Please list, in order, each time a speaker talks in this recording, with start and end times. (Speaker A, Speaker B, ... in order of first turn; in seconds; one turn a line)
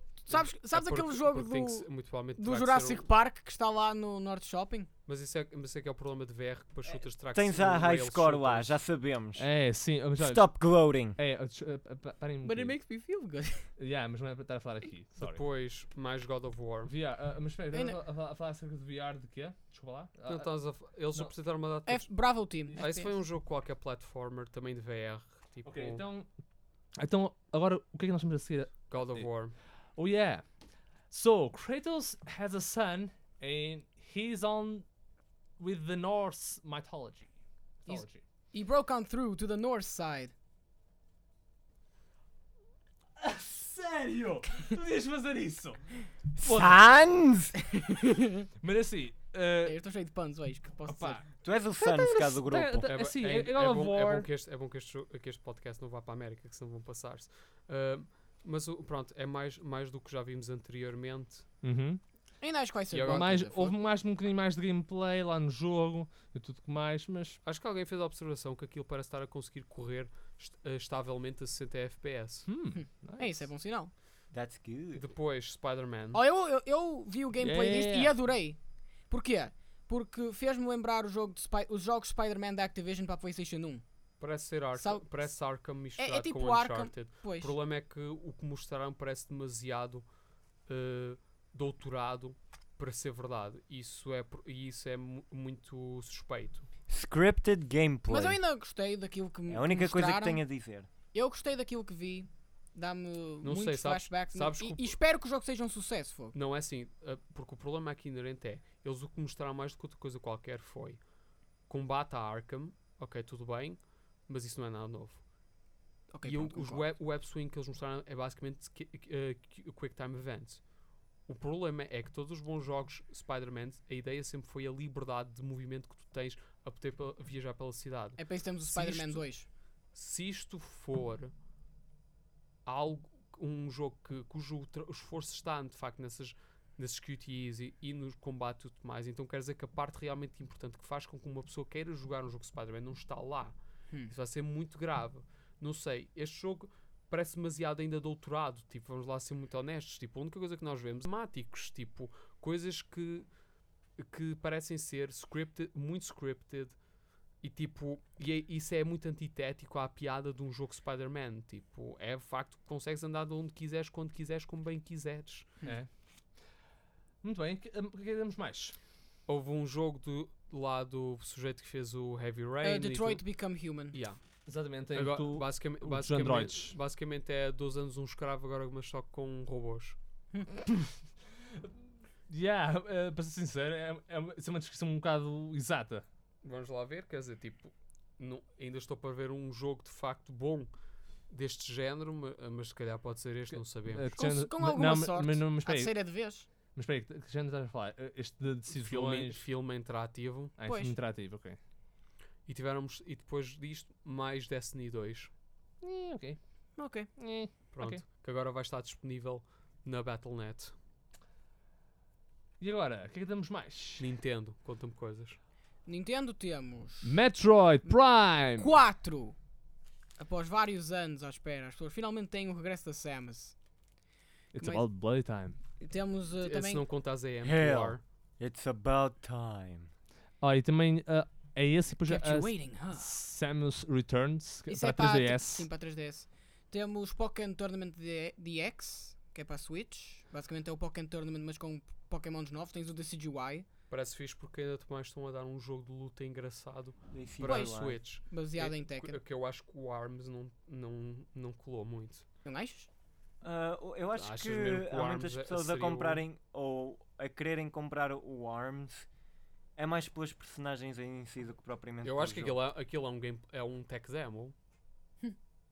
Speaker A: 0.3-4.9
Speaker B: 0.3-3.1
Speaker B: 5.1-8.8
Speaker C: 7.3-9.5
Speaker D: 9.3-12.7
Speaker C: 10.2-11.2
Speaker A: 12.4-13.7
Speaker D: 13.8-15.4
Speaker B: 15.2-16.9
Speaker D: 16.9-20.5
Speaker A: 17.7-18.0
Speaker B: 20.2-22.1
Speaker A: 21.9-23.1
Speaker B: 22.6-26.0
Speaker D: 25.6-26.3
Speaker D: 27.0-29.3
Speaker B: 28.9-29.5
Speaker D: 29.9-30.5
Speaker D: 31.1-34.8
Speaker D: 35.6-37.3
Speaker D: 37.8-38.2
Speaker A: 37.9-40.3
Speaker D: 43.2-46.8
Speaker C: 46.4-47.5
Speaker A: 47.8-48.4
Speaker D: 48.6-49.8
Speaker A: 49.6-51.2
Speaker D: 50.9-51.2
Speaker C: 51.4-52.9
Speaker D: 51.8-54.3
Speaker B: 52.9-61.5
Speaker D: 61.6-62.0
Speaker A: 62.4-63.8
Speaker B: 62.9-63.3
Speaker D: 63.0-67.4
Speaker B: 67.4-72.5
Speaker D: 72.5-73.4
Speaker A: 72.7-73.9
Speaker C: 74.3-75.0
Speaker B: 74.9-76.2
Speaker A: 76.1-83.8
Speaker D: 77.4-78.1
Speaker B: 84.2-90.0
Speaker A: 84.8-85.0
Speaker A: 86.0-87.5
Speaker B: 90.7-96.7
Speaker C: 96.9-98.4
Speaker A: 98.1-100.4
Speaker C: 99.5-100.9
Speaker A: 101.1-106.3
Speaker B: 103.4-105.0
Speaker B: 106.3-111.0
Speaker B: 111.7-115.2
Speaker A: 116.1-116.8
Speaker B: 116.2-120.6
Speaker B: 121.3-129.2
Speaker A: 128.2-129.5
Speaker B: 129.9-131.3
Speaker B: 132.7-143.6
Speaker B: 144.1-153.3
Speaker B: 154.0-156.8
Speaker B: 157.4-165.5
Speaker D: 165.6-165.9
Speaker D: 167.2-168.7
Speaker B: 169.3-173.2
Speaker A: 172.6-174.0
Speaker B: 173.9-174.2
Speaker D: 174.4-176.8
Speaker B: 174.9-180.0
Speaker D: 182.3-186.0
Speaker B: 186.4-190.7
Speaker B: 191.3-194.2
Speaker D: 193.5-195.9
Speaker A: 194.2-196.5
Speaker D: 196.7-199.4
Speaker B: 198.7-200.5
Speaker D: 200.6-201.6
Speaker A: 200.7-200.9
Speaker B: 202.5-205.3
Speaker D: 205.8-206.4
Speaker A: 206.8-207.1
Speaker D: 207.2-208.0
Speaker B: 207.7-210.7
Speaker D: 212.6-214.1
Speaker B: 214.0-215.4
Speaker A: 215.8-217.2
Speaker D: 217.0-218.8
Speaker A: 218.6-219.3
Speaker A: 220.2-223.6
Speaker D: 224.5-225.6
Speaker A: 224.6-224.8
Speaker A: 225.8-226.8
Speaker B: 226.4-228.0
Speaker C: 227.4-229.9
Speaker D: 230.4-235.7
Speaker A: 232.1-233.1
Speaker A: 234.7-243.7
Speaker B: 243.9-252.2
Speaker C: 247.1-248.0
Speaker A: 247.4-249.2
Speaker A: 252.4-252.9
Speaker C: 253.4-259.1
Speaker B: 254.1-256.2
Speaker C: 259.8-262.6
Speaker B: 262.0-264.5